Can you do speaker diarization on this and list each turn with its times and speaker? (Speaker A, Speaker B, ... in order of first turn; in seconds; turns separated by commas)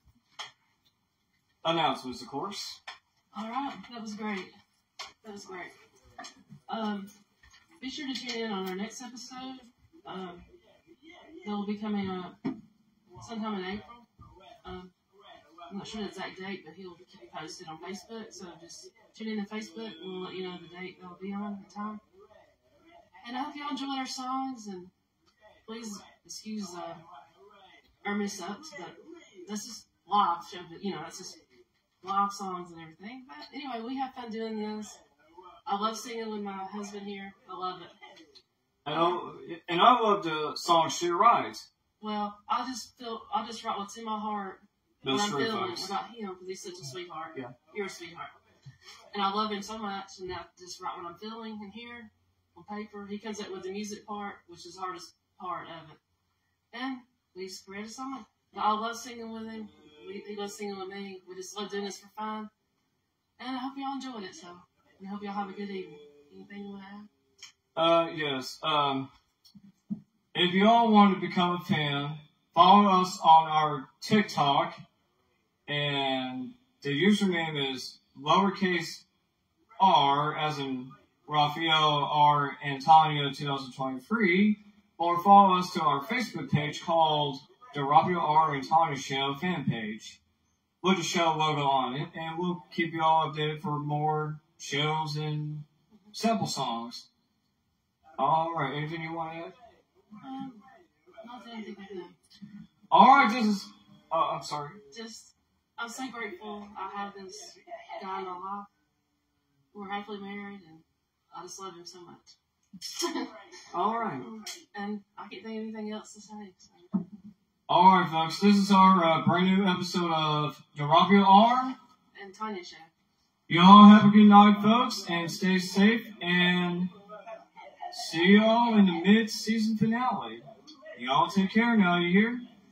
Speaker A: 1.6-2.8, Speaker B: 3.3-4.5, Speaker B: 5.2-5.7, Speaker B: 6.7-7.1, Speaker B: 7.8-10.4, Speaker B: 11.4-12.4, Speaker B: 13.2-14.1, Speaker B: 14.6-14.9, Speaker B: 15.7-22.0, Speaker B: 23.2-24.9, Speaker B: 25.6-27.0, Speaker B: 28.0-31.4, Speaker B: 32.0-35.0, Speaker B: 35.6-38.0, Speaker A: 38.8-41.7, Speaker B: 38.9-39.2, Speaker B: 42.0-48.3, Speaker A: 45.0-45.9, Speaker B: 49.1-56.0, Speaker B: 56.7-62.5, Speaker B: 63.4-67.1, Speaker A: 67.7-69.1, Speaker A: 70.3-74.8, Speaker A: 75.7-79.0, Speaker A: 79.8-90.2, Speaker A: 90.8-97.1, Speaker A: 98.2-99.5, Speaker B: 100.2-100.6, Speaker B: 101.2-102.2, Speaker A: 102.9-104.8, Speaker B: 104.9-108.7, Speaker B: 109.7-113.4, Speaker A: 113.7-114.3, Speaker B: 114.2-117.0, Speaker A: 117.7-121.8, Speaker B: 122.1-122.9, Speaker A: 123.5-126.9, Speaker A: 127.9-130.4, Speaker A: 130.9-132.4